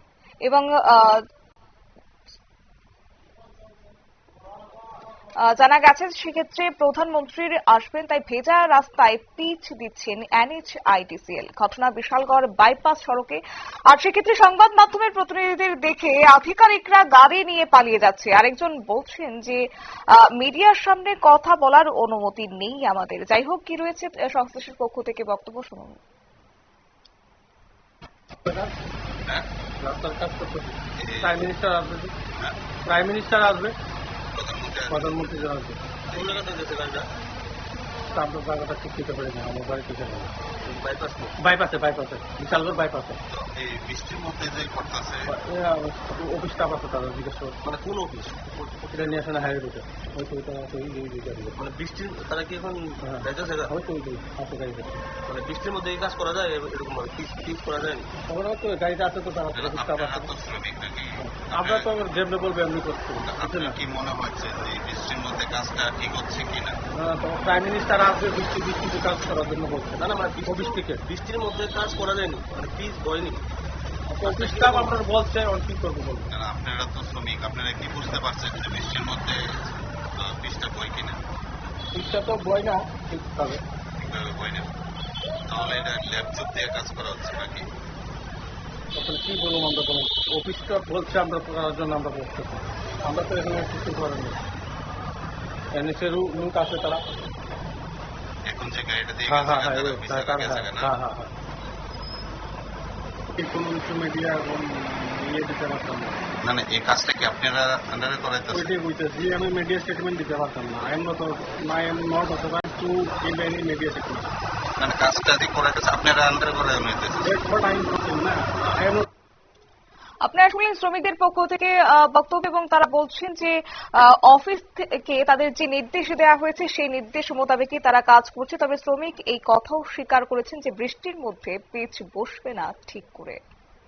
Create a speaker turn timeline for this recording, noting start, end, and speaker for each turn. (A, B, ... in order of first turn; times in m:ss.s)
0:00.4-0:01.2 A
0:05.4-0:19.6 A
0:20.1-0:26.0 A
0:28.4-0:28.8 B
0:29.8-0:32.1 B
0:31.0-0:31.5 C
0:32.8-0:33.8 B
0:34.3-0:35.4 C
0:34.9-0:35.8 B
0:36.1-0:36.5 C
0:36.1-0:37.1 D
0:38.1-0:40.3 B
0:40.6-0:41.4 D
0:41.4-0:43.2 B
0:43.3-0:45.4 C
0:45.3-0:47.6 B
0:47.6-0:49.0 D
0:48.9-0:51.6 B
0:51.6-0:53.7 D
0:53.0-0:55.0 B
0:55.3-0:58.1 D
0:58.3-1:00.3 B
0:59.6-1:01.9 C
1:01.2-1:03.8 B
1:03.2-1:06.8 C
1:06.9-1:11.0 B
1:10.0-1:13.4 D
1:14.1-1:16.3 B
1:14.2-1:15.0 D
1:16.3-1:21.2 C
1:21.9-1:23.6 B
1:24.0-1:24.7 C
1:25.5-1:27.7 C
1:28.9-1:34.4 B
1:35.7-1:37.0 B
1:38.4-1:40.9 C
1:39.3-1:41.3 B
1:43.4-1:46.1 B
1:46.4-1:48.7 C
1:48.5-1:54.3 B
1:54.8-1:57.3 C
1:57.2-1:59.1 B
2:00.2-2:13.4 A